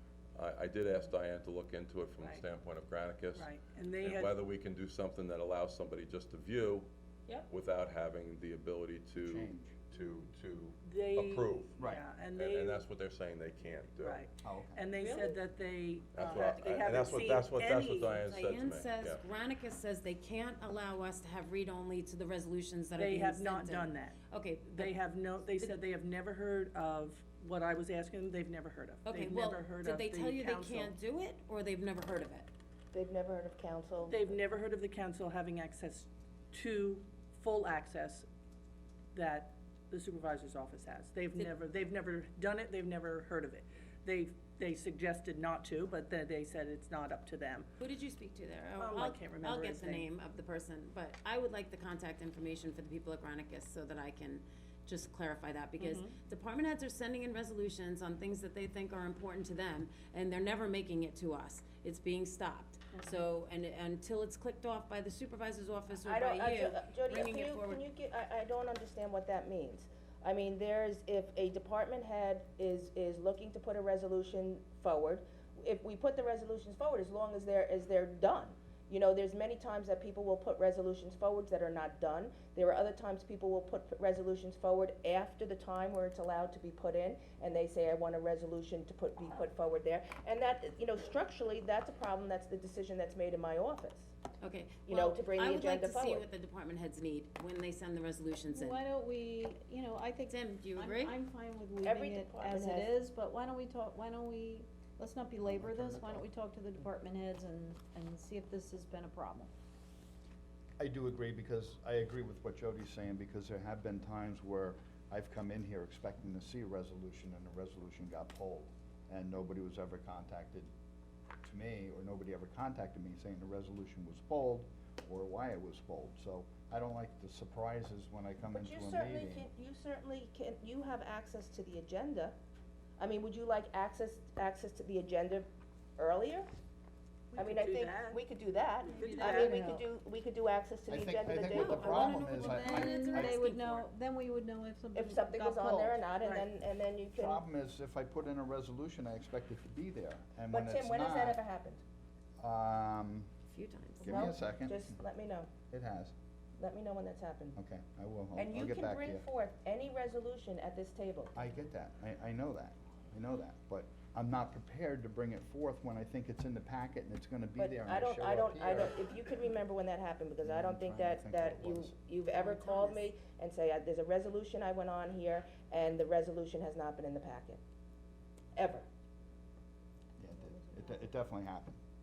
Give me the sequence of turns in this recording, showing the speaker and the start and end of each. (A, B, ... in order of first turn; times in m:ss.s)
0:00.4-0:06.9 A
0:02.2-0:02.4 B
0:03.4-0:04.4 B
0:07.5-0:11.8 A
0:09.2-0:09.8 C
0:10.8-0:12.9 B
0:11.8-0:12.0 C
0:12.3-0:14.2 A
0:14.0-0:18.3 B
0:14.4-0:14.9 C
0:15.0-0:15.4 D
0:16.1-0:19.2 A
0:18.3-0:25.8 D
0:23.0-0:24.2 B
0:24.8-0:30.9 B
0:29.0-0:32.5 D
0:32.9-0:34.4 E
0:34.0-0:38.3 B
0:39.1-0:47.7 B
0:47.8-1:07.8 D
0:48.8-0:50.1 B
0:55.8-0:56.1 B
1:06.0-1:34.1 E
1:34.4-1:38.8 D
1:34.9-1:36.3 E
1:38.5-1:49.5 F
1:40.3-1:41.2 D
1:41.8-1:42.9 E
1:45.4-1:46.3 C
1:50.8-2:00.7 C
2:01.4-2:09.5 C
2:08.5-2:12.4 E
2:13.0-2:16.5 E
2:17.3-2:18.2 B
2:17.4-2:22.1 E
2:18.9-2:19.7 B
2:19.0-2:19.8 F
2:20.9-2:23.4 C
2:21.5-2:23.9 D
2:21.8-2:26.1 F
2:24.9-2:27.4 E
2:26.2-2:26.5 B
2:27.1-2:31.4 C
2:30.5-2:31.8 E
2:32.4-2:33.3 C
2:33.5-2:34.3 D
2:34.0-2:35.0 C
2:34.1-2:35.5 E
2:35.7-2:36.1 C
2:36.6-2:37.6 E
2:37.6-2:39.2 C
2:38.4-2:41.4 E
2:41.4-2:49.0 C
2:47.6-2:57.6 E
2:50.4-2:51.9 C
2:52.3-2:53.1 D
2:58.6-2:58.9 E
3:00.2-3:01.8 C